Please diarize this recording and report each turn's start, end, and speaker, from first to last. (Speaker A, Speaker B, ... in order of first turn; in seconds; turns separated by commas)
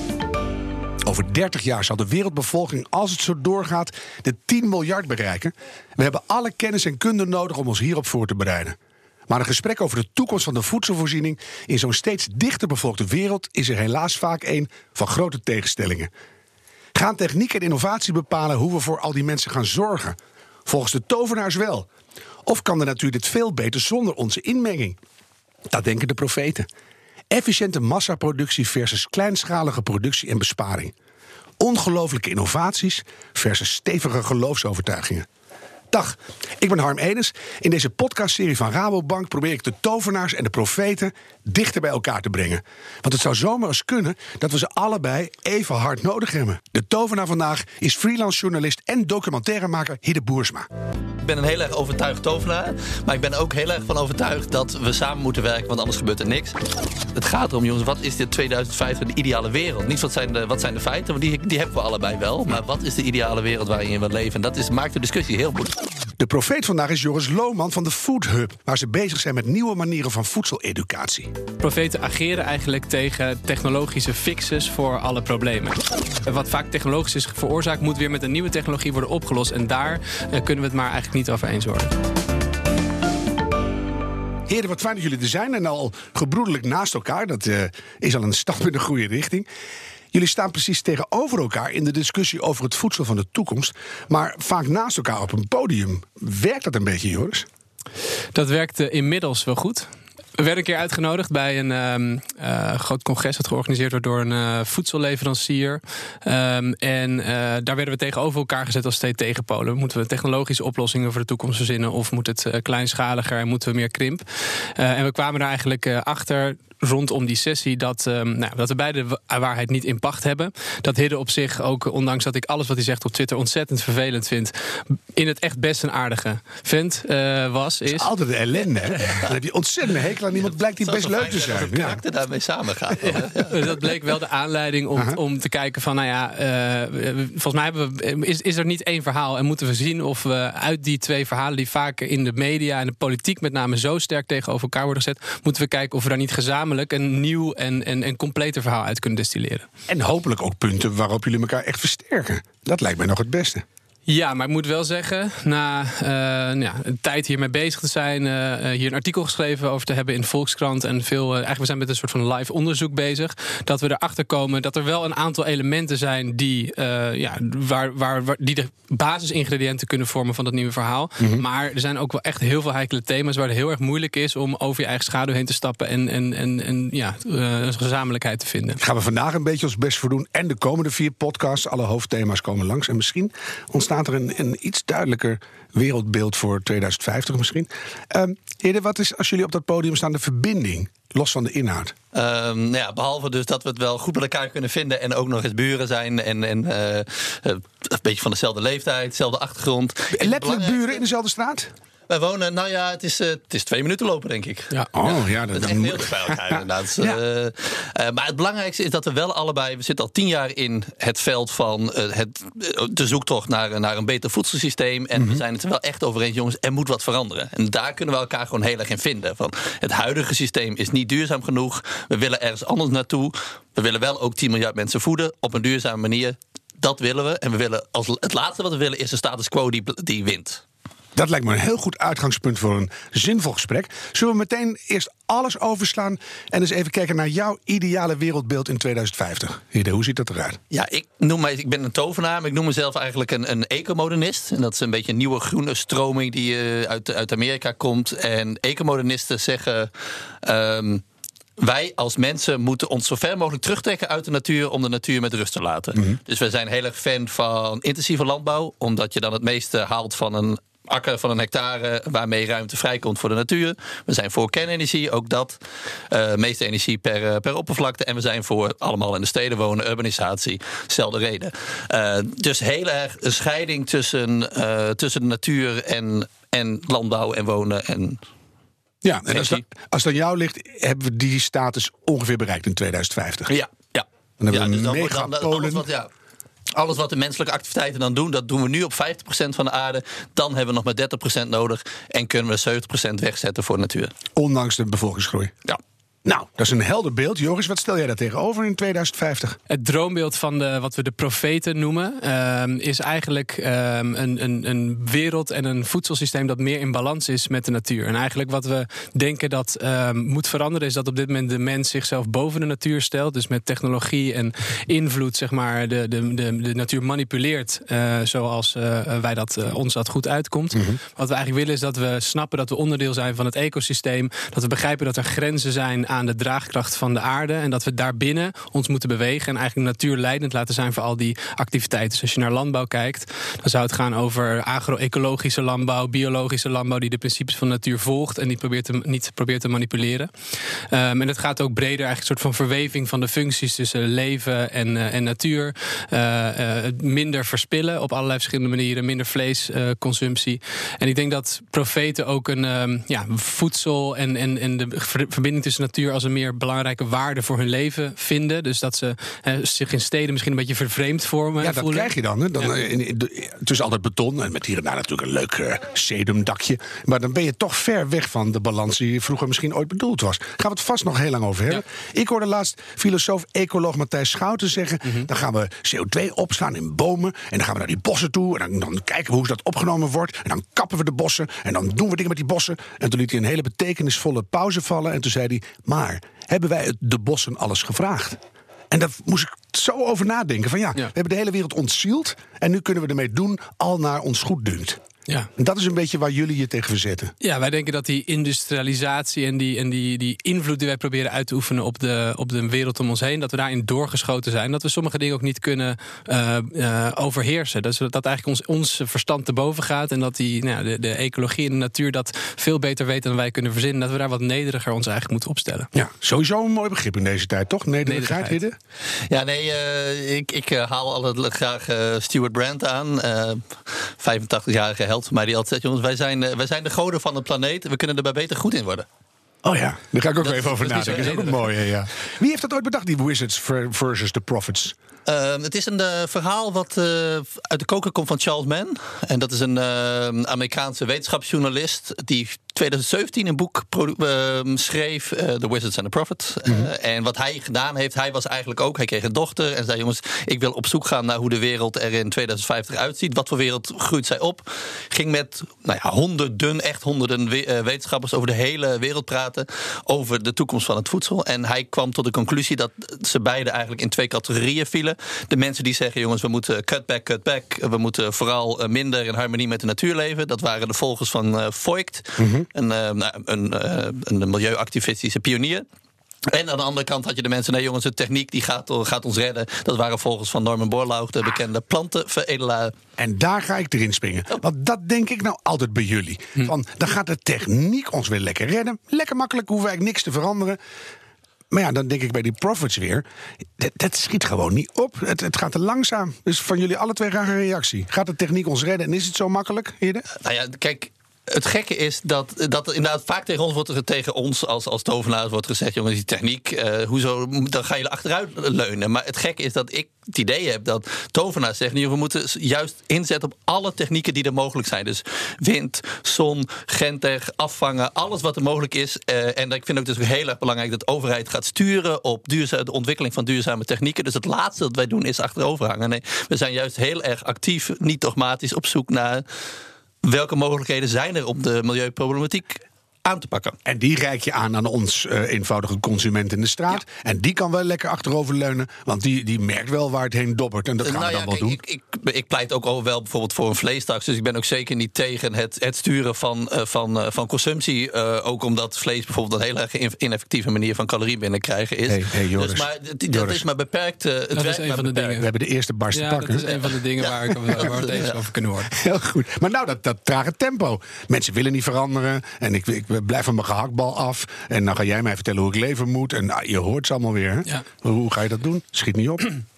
Speaker A: 1.1-8.8, Speaker A: 9.3-16.1, Speaker A: 16.9-21.9, Speaker A: 22.5-25.0, Speaker A: 25.7-26.7, Speaker A: 27.3-30.9, Speaker A: 31.6-35.3, Speaker A: 35.9-50.7, Speaker B: 51.2-56.6, Speaker B: 57.1-65.8, Speaker A: 66.2-71.3, Speaker C: 71.6-81.9, Speaker A: 84.5-89.5, Speaker A: 90.1-97.5, Speaker C: 98.3-128.1, Speaker A: 127.9-132.0, Speaker B: 130.4-133.6, Speaker C: 133.0-149.7, Speaker A: 149.9-153.6, Speaker C: 154.1-178.8, Speaker A: 171.2-171.4, Speaker A: 178.8-191.9, Speaker B: 192.1-201.0, Speaker A: 200.1-201.7, Speaker B: 202.1-230.6, Speaker A: 204.9-207.2, Speaker A: 215.2-215.4, Speaker A: 231.2-240.6, Speaker B: 240.7-249.9, Speaker B: 250.4-251.0, Speaker B: 251.6-278.2, Speaker A: 279.0-283.5, Speaker B: 279.3-279.6, Speaker B: 283.5-286.1, Speaker A: 284.4-285.9, Speaker B: 286.7-294.1, Speaker A: 294.4-295.5, Speaker A: 296.2-299.6, Speaker C: 299.7-362.1, Speaker A: 320.7-321.0, Speaker A: 361.6-388.4, Speaker A: 388.9-395.0, Speaker A: 395.6-397.3, Speaker C: 397.4-415.9, Speaker A: 415.9-418.8, Speaker C: 418.1-418.6, Speaker B: 419.3-429.1, Speaker A: 429.6-434.9, Speaker C: 430.8-431.6, Speaker B: 430.8-431.4, Speaker B: 435.3-475.9, Speaker A: 472.4-472.7, Speaker B: 476.5-482.9, Speaker A: 483.2-490.8, Speaker A: 491.7-493.2, Speaker A: 493.8-500.3, Speaker B: 500.4-529.4, Speaker B: 530.2-533.8, Speaker A: 533.9-541.8, Speaker B: 541.0-555.4, Speaker A: 552.1-553.6, Speaker C: 554.5-555.5, Speaker A: 555.4-556.6, Speaker C: 556.1-558.9, Speaker B: 556.7-558.4, Speaker A: 558.9-569.5